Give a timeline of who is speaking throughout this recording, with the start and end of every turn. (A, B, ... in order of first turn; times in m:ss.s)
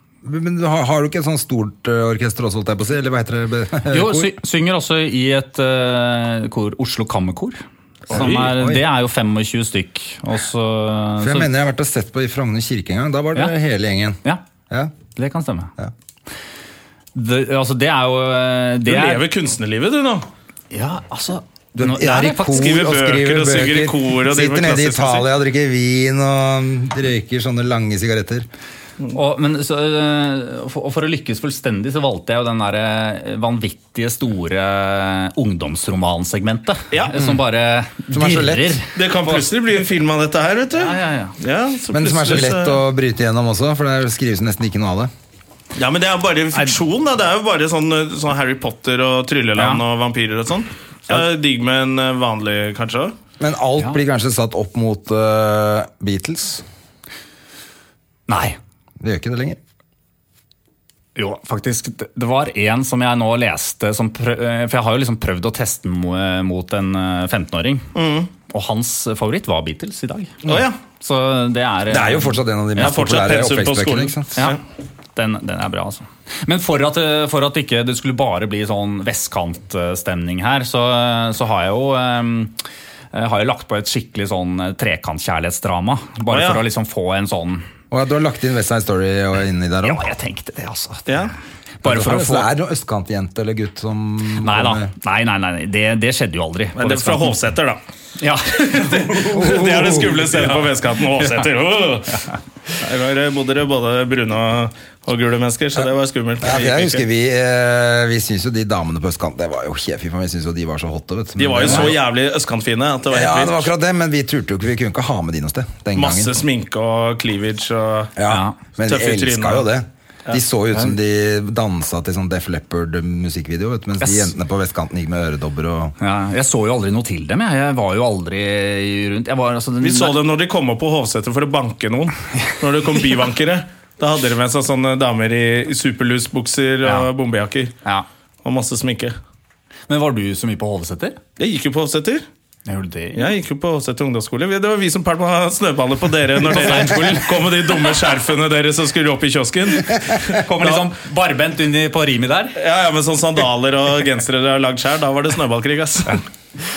0:00.2-0:04.4 A
0:03.9-0:11.5 B
0:08.1-0:08.8 A
0:11.2-0:14.9 A
0:15.1-0:15.7 B
0:17.2-0:19.2 B
0:18.9-0:20.3 C
0:20.7-0:22.7 B
0:21.8-0:28.5 A
0:22.4-0:25.3 C
0:29.1-0:39.4 B
0:38.1-0:38.8 A
0:39.0-0:42.8 C
0:40.7-0:41.4 B
0:41.9-0:45.1 A
0:45.8-0:53.1 C
0:49.6-0:49.8 B
0:53.4-0:56.6 A
0:58.3-0:58.6 B
0:59.0-0:59.6 A
1:01.2-1:07.9 B
1:08.0-1:08.3 C
1:08.5-1:10.4 B
1:10.4-1:10.8 C
1:11.0-1:12.4 B
1:11.9-1:14.4 A
1:12.8-1:14.6 C
1:15.2-1:22.6 B
1:23.1-1:27.6 B
1:26.3-1:26.6 C
1:27.9-1:30.1 A
1:29.8-1:31.3 B
1:31.1-1:31.3 C
1:31.8-1:32.5 B
1:31.8-1:34.9 A
1:34.4-1:37.4 B
1:36.8-1:37.8 C
1:38.2-1:40.0 B
1:38.9-1:42.2 C
1:39.3-1:40.5 A
1:42.8-1:47.0 C
1:46.4-1:52.0 A
1:51.4-1:53.7 C
1:51.7-1:51.9 B
1:53.1-1:56.4 A
1:56.0-1:58.2 C
1:58.2-2:06.0 A
1:58.3-1:58.6 B
1:58.8-1:59.7 C
2:04.0-2:04.3 B
2:06.0-2:10.2 B
2:09.8-2:17.7 C
2:16.8-2:17.1 B
2:18.4-2:19.2 C
2:19.9-2:21.2 B
2:21.4-2:22.3 C
2:22.7-2:23.4 B
2:23.1-2:30.9 C
2:26.4-2:27.8 B
2:30.3-2:32.6 B
2:32.6-2:36.2 C